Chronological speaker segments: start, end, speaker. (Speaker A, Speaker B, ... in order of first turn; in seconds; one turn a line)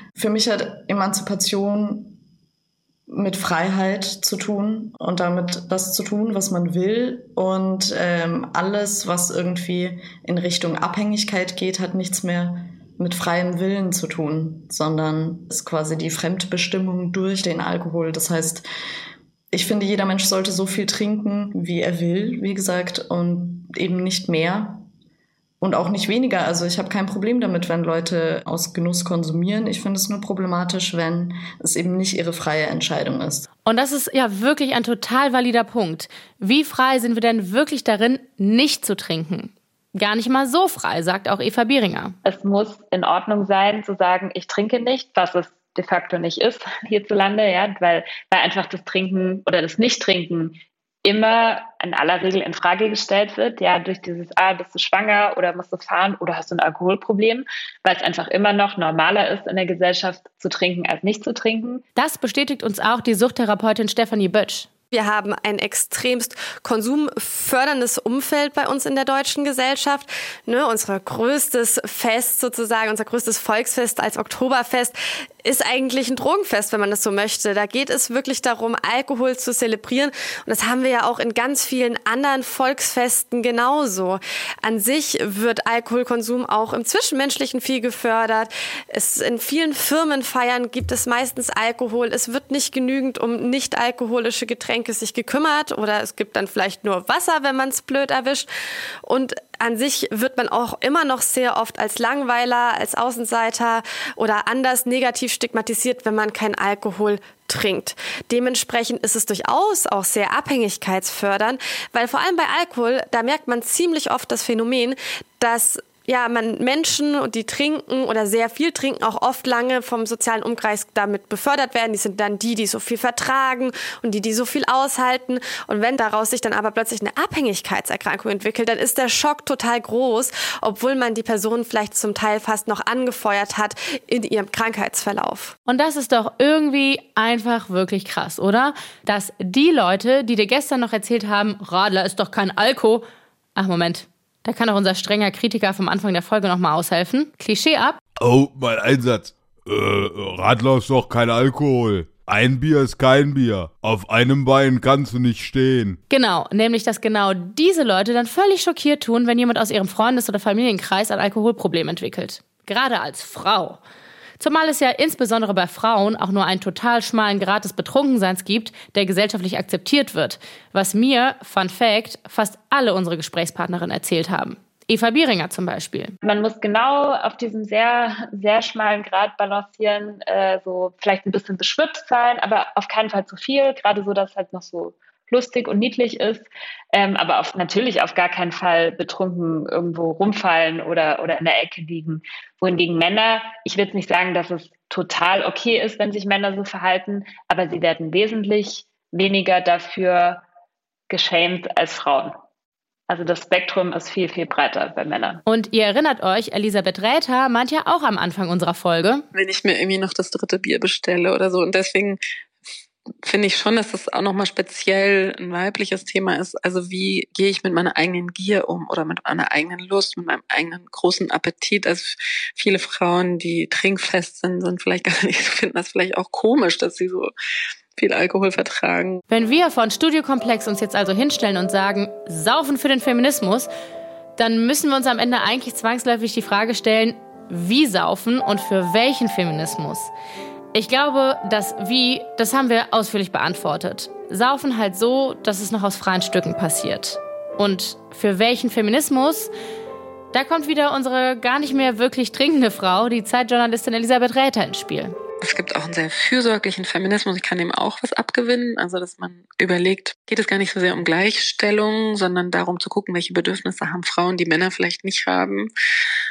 Speaker A: 0.1-2.2
Speaker A: 3.1-18.6
Speaker A: 19.5-24.9
Speaker A: 25.6-33.5
Speaker B: 33.6-42.1
Speaker C: 42.2-61.8
Speaker B: 62.0-64.7
Speaker D: 64.9-98.5
Speaker D: 99.0-135.5
Speaker B: 135.7-143.0
Speaker B: 143.6-148.0
Speaker E: 148.2-156.0
Speaker B: 156.1-163.8
Speaker B: 164.4-176.1
Speaker C: 176.2-200.4
Speaker C: 201.1-202.3
Speaker C: 203.1-205.4
Speaker B: 205.4-209.2
Speaker F: 209.3-212.2
Speaker F: 213.2-227.3
Speaker F: 228.0-229.2
Speaker B: 229.3-233.7
Speaker B: 234.4-240.1
Speaker B: 240.7-249.5
Speaker B: 250.3-255.1
Speaker F: 255.4-265.7